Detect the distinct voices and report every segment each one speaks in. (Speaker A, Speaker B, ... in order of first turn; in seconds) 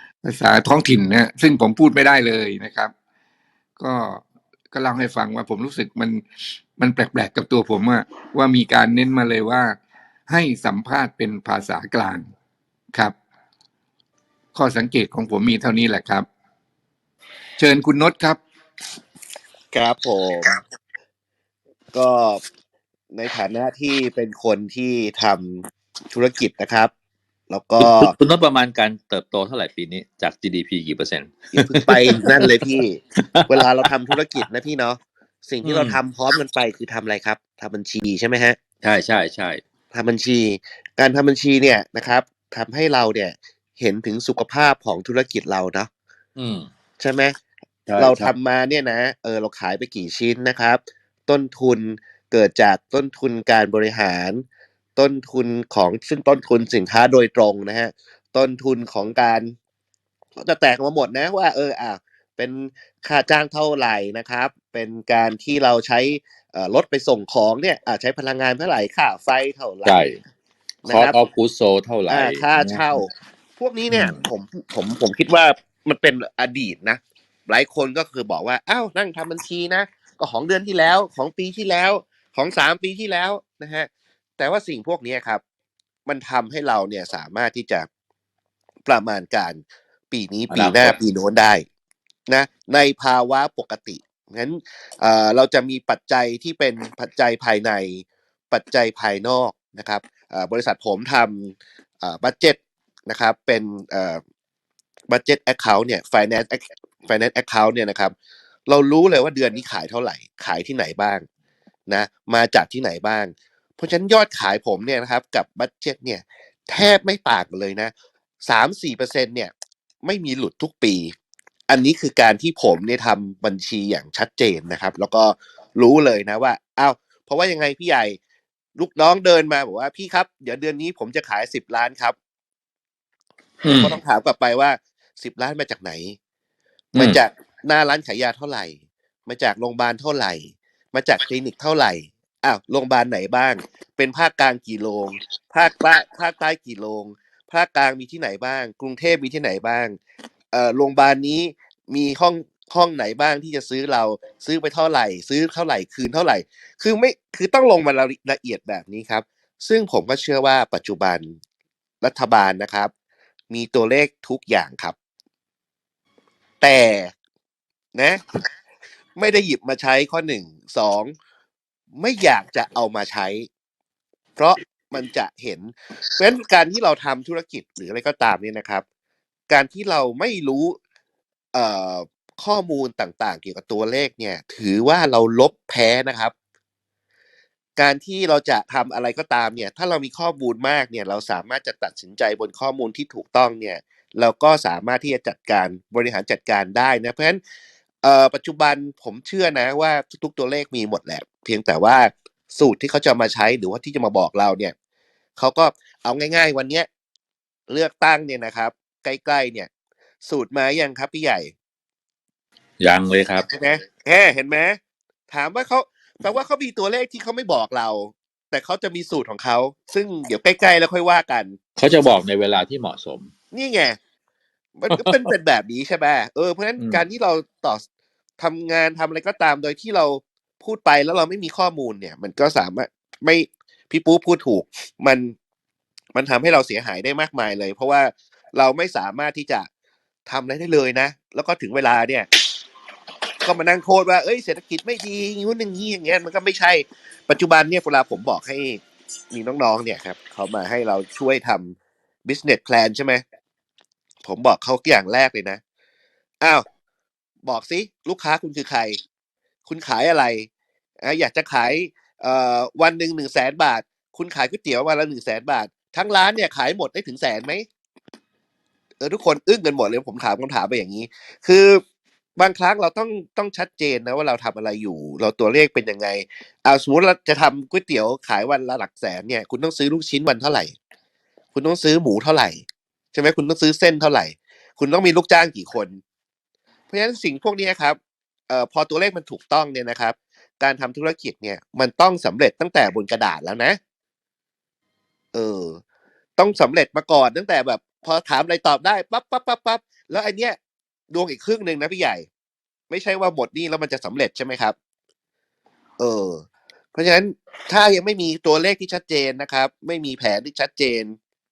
Speaker A: 0.2-2.9, 3.8-6.2, 6.8-9.7, 10.3-12.3, 14.5-16.3, 17.6-18.4
Speaker B: 19.7-20.6, 21.9-22.4, 23.1-26.9, 27.5-28.1, 31.5-38.6, 39.9-45.9, 47.0-47.3, 48.0-54.4, 55.0-59.5, 60.4-70.0, 70.8-71.2, 72.1-85.4, 86.1-87.9, 88.8-91.6, 92.3-104.2, 105.1-108.1, 108.7-111.2, 111.9-117.9, 118.5-119.5, 120.0-121.1, 121.7-128.2, 128.8-132.2, 133.8-136.2, 137.0-150.0, 150.5-161.4, 162.0-162.9, 163.5-165.0, 166.6-167.1, 167.9-168.2, 169.2-171.1, 172.0-173.5, 174.4-178.8, 179.5-180.8, 181.5-186.3, 187.8-197.4, 198.0-204.7, 205.4-206.9, 207.7-209.7, 210.2-211.5, 213.5-214.8, 215.3-221.6, 223.5-224.0, 224.8-227.8, 228.4-235.3, 236.2-239.7, 240.3-242.3, 243.4-253.2, 254.2-255.6, 257.5-259.0, 259.7-260.5, 261.0-267.6, 269.0-271.8, 272.4-280.7, 281.6-282.6, 283.1-286.0, 286.9-288.0, 288.5-293.8, 295.3-295.8, 296.4-300.6, 301.1-302.3, 302.9-304.8, 306.0-311.2
Speaker C: 27.8-32.6, 33.2-33.6, 35.6-36.0, 38.8-39.6, 46.4-46.7, 47.9-48.3, 69.8-70.2, 70.9-73.0, 73.9-74.2, 90.5-91.0, 133.6-134.0, 136.9-137.2, 212.8-213.5, 221.8-223.3, 224.9-225.3, 226.8-227.0